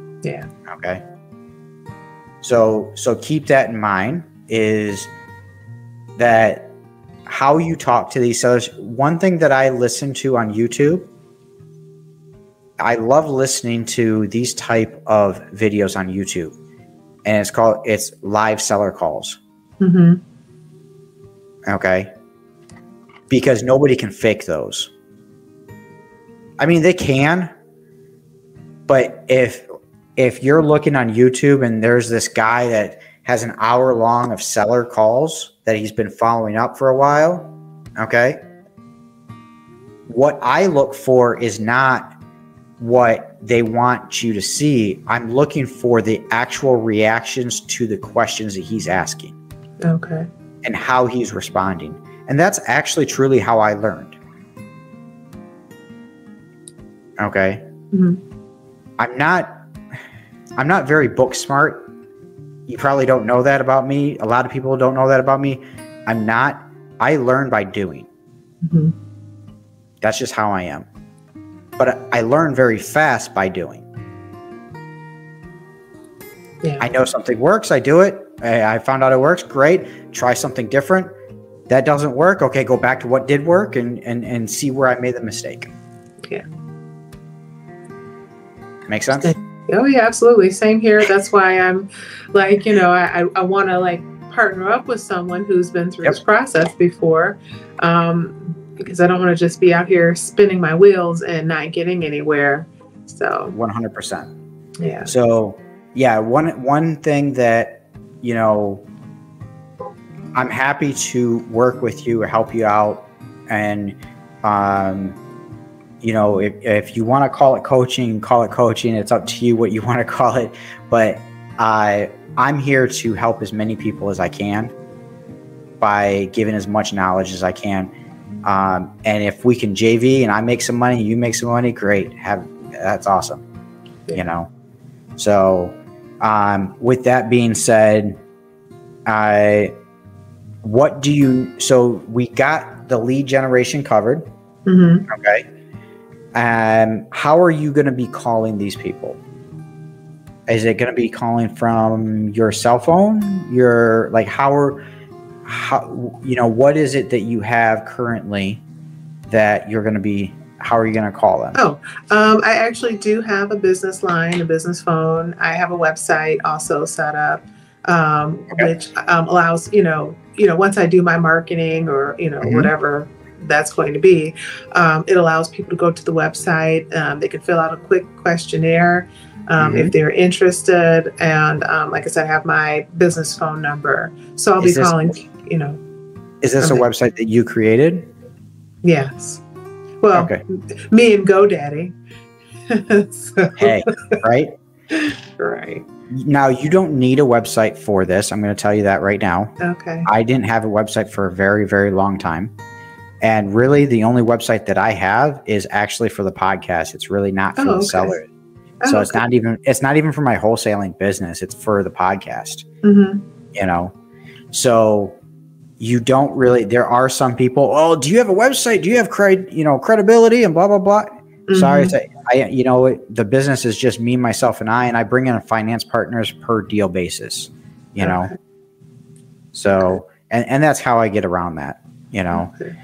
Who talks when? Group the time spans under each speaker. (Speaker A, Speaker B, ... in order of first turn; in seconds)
Speaker A: 0.2-0.5, 19.8-20.2, 49.8-50.3, 57.9-58.2, 68.6-68.9, 76.6-76.9, 89.1-103.5, 104.8-105.1, 144.7-145.1, 161.5-185.8, 186.6-186.9, 188.8-189.4, 190.0-191.9, 192.7-194.1, 194.9-195.8, 199.6-200.1, 207.6-208.2, 208.8-209.2, 212.8-213.2, 221.5-221.9, 228.0-228.2, 232.3-232.7
Speaker B: 0.7-1.0, 2.4-5.1, 6.2-6.7, 7.3-11.1, 12.8-16.5, 17.2-19.4, 21.6-22.1, 23.3-24.9, 26.6-27.5, 28.9-29.6, 30.2-38.4, 40.1-42.1, 42.8-49.4, 50.6-54.2, 57.2-57.6, 59.0-59.5, 60.6-61.9, 62.7-68.1, 70.0-70.9, 71.8-73.8, 76.8-81.1, 81.7-85.7, 88.9-89.3, 103.5-104.3, 105.0-108.8, 110.3-115.2, 116.0-124.7, 125.8-127.9, 128.4-133.4, 134.1-134.5, 135.2-138.2, 139.1-139.7, 140.6-144.2, 145.1-145.4, 146.3-149.2, 150.5-154.8, 155.4-158.6, 159.3-161.6, 172.4-172.7, 179.6-179.9, 184.6-185.1, 186.4-188.1, 190.1-190.4, 193.6-194.5, 196.1-202.5, 203.2-208.2, 208.8-212.6, 213.5-213.9, 214.5-215.2, 215.8-228.3, 229.5-232.5